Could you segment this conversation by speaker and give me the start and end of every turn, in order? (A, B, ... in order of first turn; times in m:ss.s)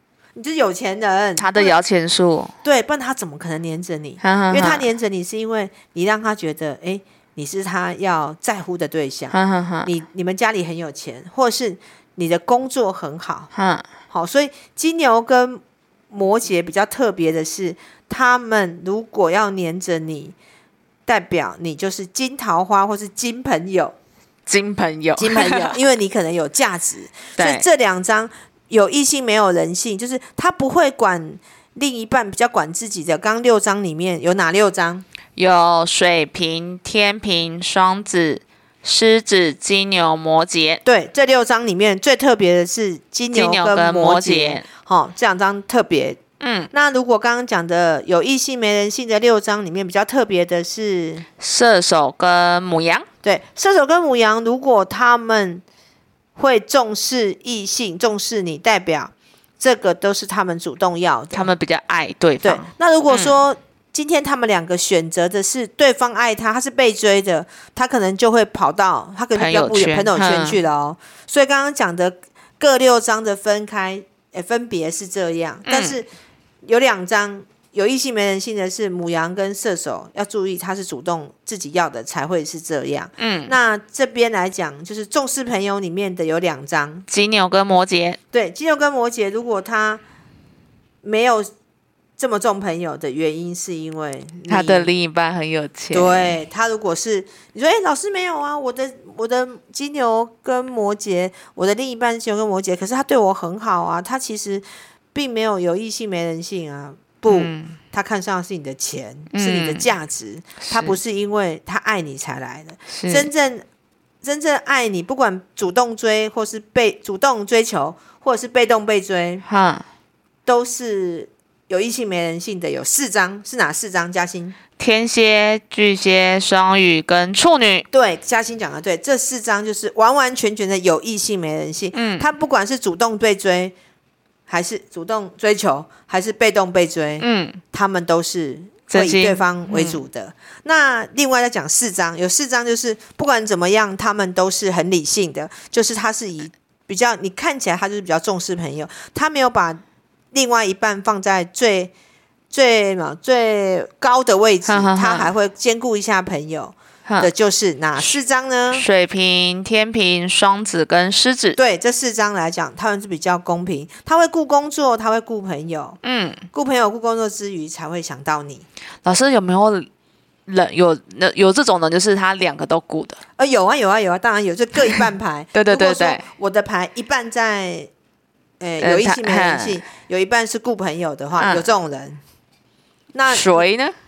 0:00.4-0:01.7 A
0:01.4-0:02.5 B
0:02.6-0:13.5 A
0:04.2-0:04.8 B
0:09.3-0:09.9 B
0:13.5-0:13.9 B
0:14.1-0:20.3 A
0:21.0-0:23.9 A
0:24.4-0:25.8 B
0:25.2-0:35.0 A
0:27.4-0:27.6 B
0:35.4-0:40.8 B
0:40.8-0:46.2 A
0:43.3-0:44.6 B
0:46.4-0:46.7 B
0:46.7-0:51.2 A
0:51.4-0:53.1 B
0:53.2-0:55.6 A
0:56.4-1:01.5 A
1:01.3-1:03.4 B
1:02.4-1:16.1 A
1:09.3-1:10.6 B
1:15.6-1:16.0 B
1:16.6-1:27.0 A
1:23.2-1:23.6 B
1:27.1-1:28.2 B
1:28.3-1:30.0 A
1:31.0-1:31.5 A
1:32.2-1:34.9 A
1:34.5-1:36.4 B
1:35.9-1:53.6 A
1:47.3-1:47.8 B
1:49.3-1:49.8 B
1:50.6-1:51.0 B
1:52.9-1:53.3 B
1:54.2-1:59.4 A
1:59.4-1:59.8 B
2:00.4-2:04.6 A
2:04.8-2:07.8 B
2:07.9-2:13.7 A
2:11.9-2:12.2 B
2:14.5-2:31.9 A
2:17.2-2:17.6 B
2:18.9-2:20.0 B
2:32.5-2:38.8 A
2:34.6-2:35.3 B
2:38.7-2:41.6 B
2:41.6-2:46.0 A
2:46.0-2:46.5 B
2:46.5-2:48.6 A
2:49.0-2:49.9 B
2:50.5-2:53.2 B
2:53.4-2:57.9 A
2:55.5-2:56.2 B
2:58.6-3:02.2 A
2:58.8-2:59.8 B
3:01.4-3:01.7 B
3:03.1-3:03.6 A
3:03.3-3:03.9 B